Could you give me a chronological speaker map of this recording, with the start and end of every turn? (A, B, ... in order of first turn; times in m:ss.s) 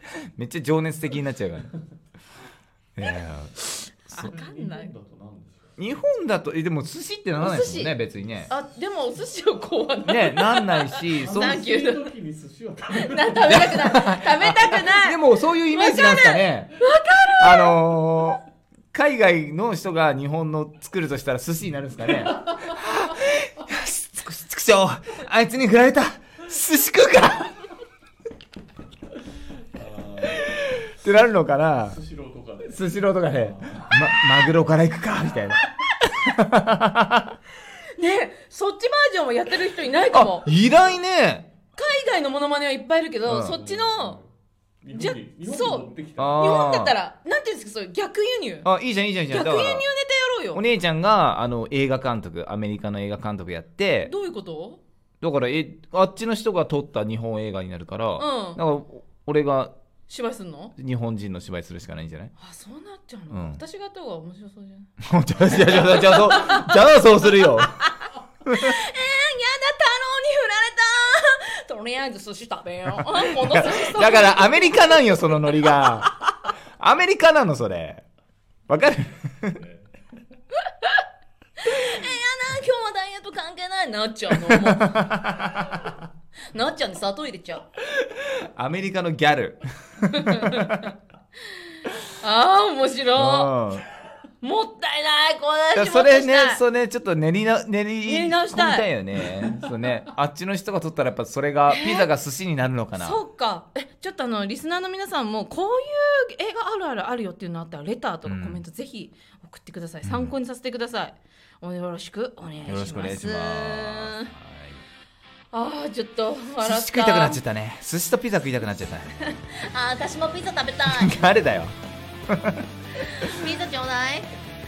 0:00.4-0:01.7 A
0:03.0-0:04.3 A
0:04.1-0:04.9 B
0:04.4-0:05.7 C
0:05.8-0:08.5 A
0:07.4-0:08.0 B
0:08.5-0:12.1 B
0:10.0-0:11.6 A
0:11.4-0:13.4 C
0:12.9-0:17.8 B
0:13.5-0:16.8 A
0:17.4-0:27.7 A
0:29.8-0:30.2 C
0:30.2-0:32.0 A
0:32.1-0:32.7 C
0:32.6-0:37.4 A
0:37.7-0:40.5 B
0:40.1-0:41.5 A
0:41.8-0:44.2 B
0:43.3-0:43.6 A
0:43.7-0:44.3 C
0:44.8-0:46.4 C
0:44.9-0:48.7 B
0:46.2-0:47.0 A
0:48.6-0:49.9 A
0:49.3-0:50.6 B
0:50.5-0:54.1 A
0:54.0-0:54.8 B
0:55.2-0:59.7 A
0:58.2-0:58.6 B
1:00.1-1:00.8 B
1:00.8-1:02.3 A
1:02.4-1:04.9 B
1:03.3-1:03.6 A
1:05.0-1:07.8 A
1:05.6-1:14.9 B
1:08.5-1:08.8 A
1:13.1-1:16.2 A
1:16.8-1:18.0 A
1:18.7-1:19.7 A
1:20.5-1:21.0 B
1:21.6-1:25.2 B
1:24.3-1:26.0 A
1:26.5-1:27.7 B
1:28.0-1:30.9 A
1:30.1-1:30.9 B
1:31.6-1:33.5 B
1:33.2-1:33.8 A
1:34.4-1:36.6 B
1:35.8-1:43.2 A
1:38.0-1:38.9 B
1:41.7-1:42.1 B
1:43.0-1:54.3 B
1:48.3-1:48.6 A
1:50.0-1:50.3 A
1:52.7-1:54.8 A
1:55.5-1:57.4 B
1:56.6-1:59.1 A
1:59.2-2:01.1 B
2:00.9-2:01.8 A
2:02.3-2:02.7 A
2:03.0-2:04.3 B